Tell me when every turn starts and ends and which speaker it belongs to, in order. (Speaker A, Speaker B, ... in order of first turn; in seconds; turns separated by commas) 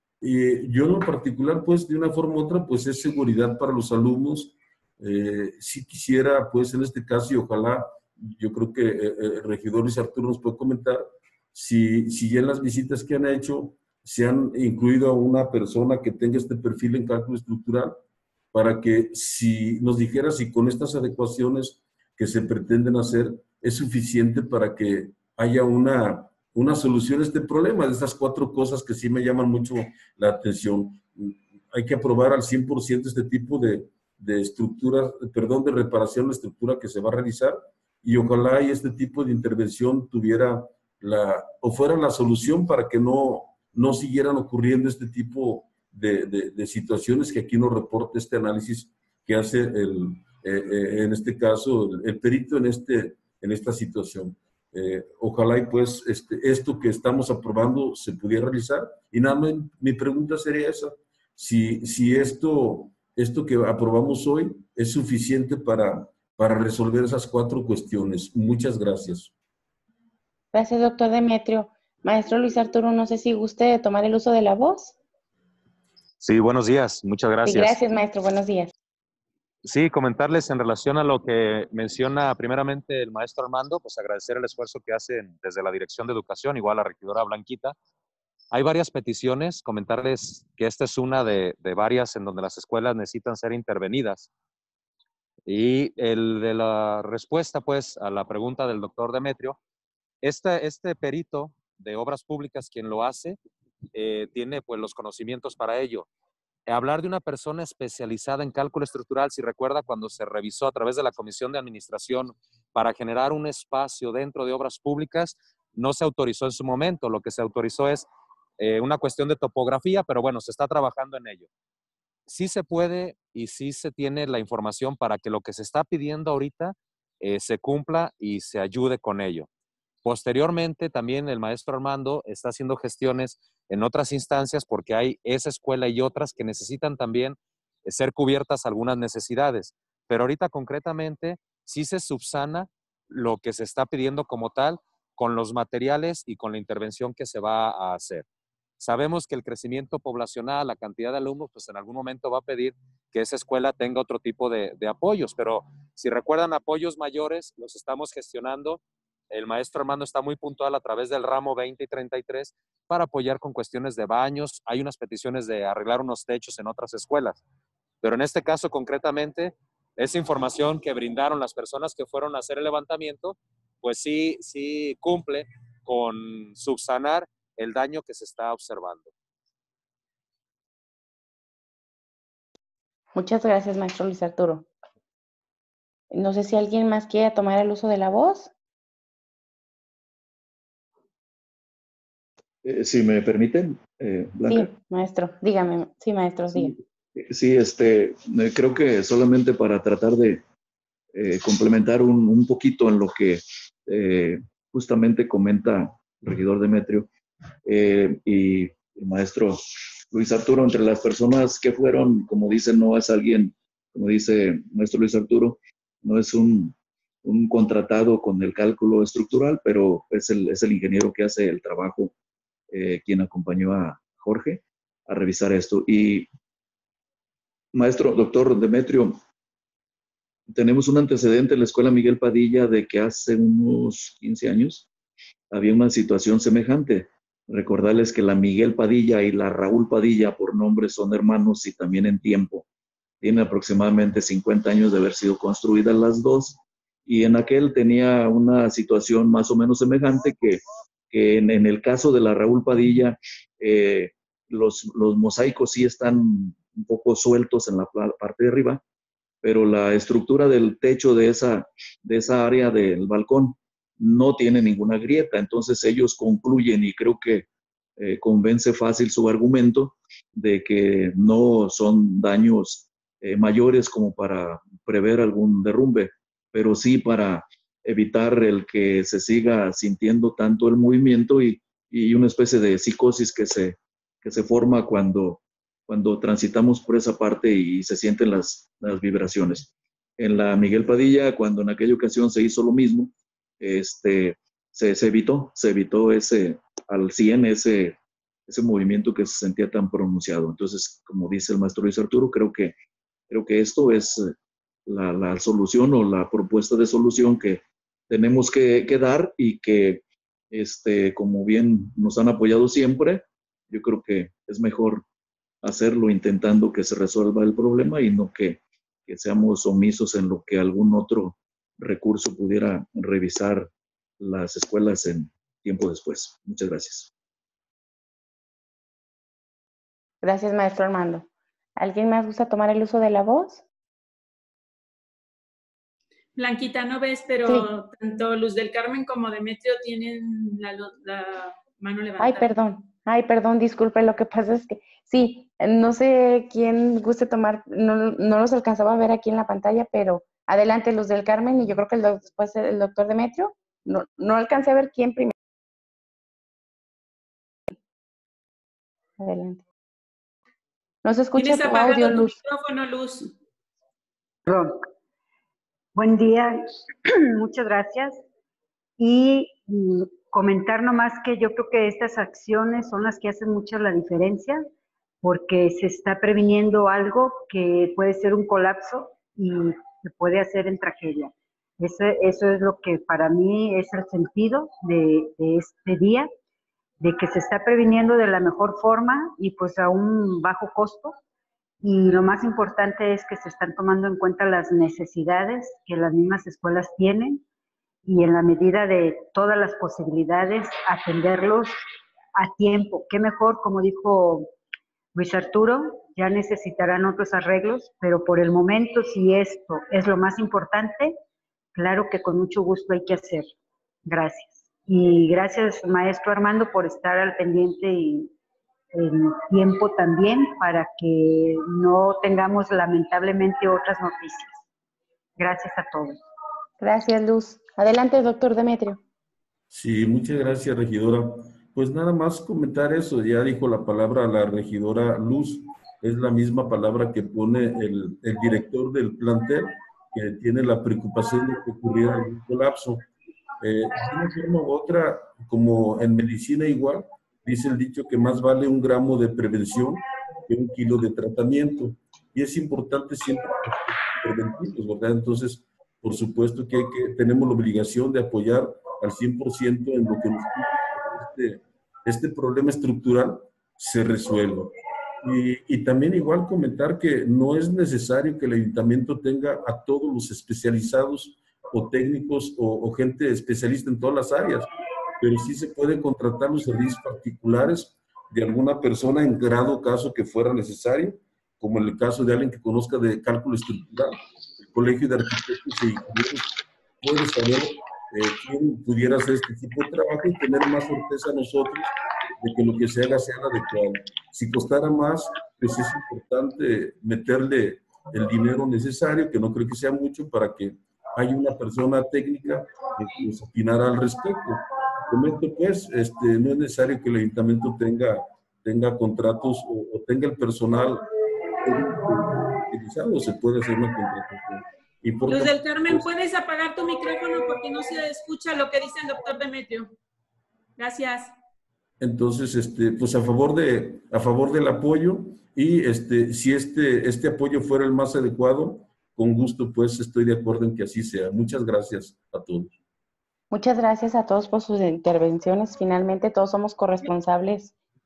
Speaker A: 0.2-11.0, Speaker A: 11.5-18.0, Speaker A: 18.5-69.3, Speaker B: 70.5-75.0, Speaker C: 76.2-77.8, Speaker B: 77.4-78.7, Speaker C: 79.6-87.7, Speaker C: 88.5-94.3, Speaker C: 95.5-99.6, Speaker C: 100.2-103.4, Speaker C: 103.9-106.1, Speaker C: 106.7-118.1, Speaker C: 118.6-121.5, Speaker C: 122.3-129.5, Speaker C: 130.0-148.2, Speaker C: 148.8-167.4, Speaker C: 168.0-179.1, Speaker B: 183.1-184.7, Speaker B: 186.1-188.5, Speaker D: 192.6-194.7, Speaker B: 194.5-196.7, Speaker D: 196.5-200.4, Speaker D: 201.1-207.1, Speaker D: 207.7-222.1, Speaker D: 222.7-226.3, Speaker D: 227.7-229.2, Speaker D: 230.5-234.9, Speaker D: 235.5-242.7, Speaker D: 243.2-258.8, Speaker D: 259.4-267.5, Speaker D: 268.0-302.8, Speaker D: 303.3-304.3, Speaker D: 304.9-315.0, Speaker D: 315.6-327.1, Speaker B: 330.2-331.3, Speaker B: 331.8-333.6, Speaker E: 336.4-342.5, Speaker B: 342.2-355.3, Speaker B: 359.2-359.6, Speaker B: 361.0-362.4, Speaker E: 361.4-363.3, Speaker F: 364.4-364.9, Speaker F: 365.9-368.2, Speaker F: 369.0-374.6, Speaker F: 375.2-386.3, Speaker F: 387.0-391.2, Speaker F: 391.8-397.4, Speaker F: 398.0-401.8, Speaker F: 402.4-404.5, Speaker F: 405.1-411.2, Speaker F: 411.7-418.3, Speaker F: 418.9-424.6, Speaker F: 425.4-426.2, Speaker B: 426.8-429.0, Speaker A: 429.7-443.0, Speaker A: 443.6-474.7, Speaker A: 475.2-486.5, Speaker A: 487.0-511.1, Speaker A: 511.6-516.0, Speaker E: 515.3-519.9, Speaker E: 520.8-521.3, Speaker A: 522.0-532.8, Speaker B: 533.5-537.7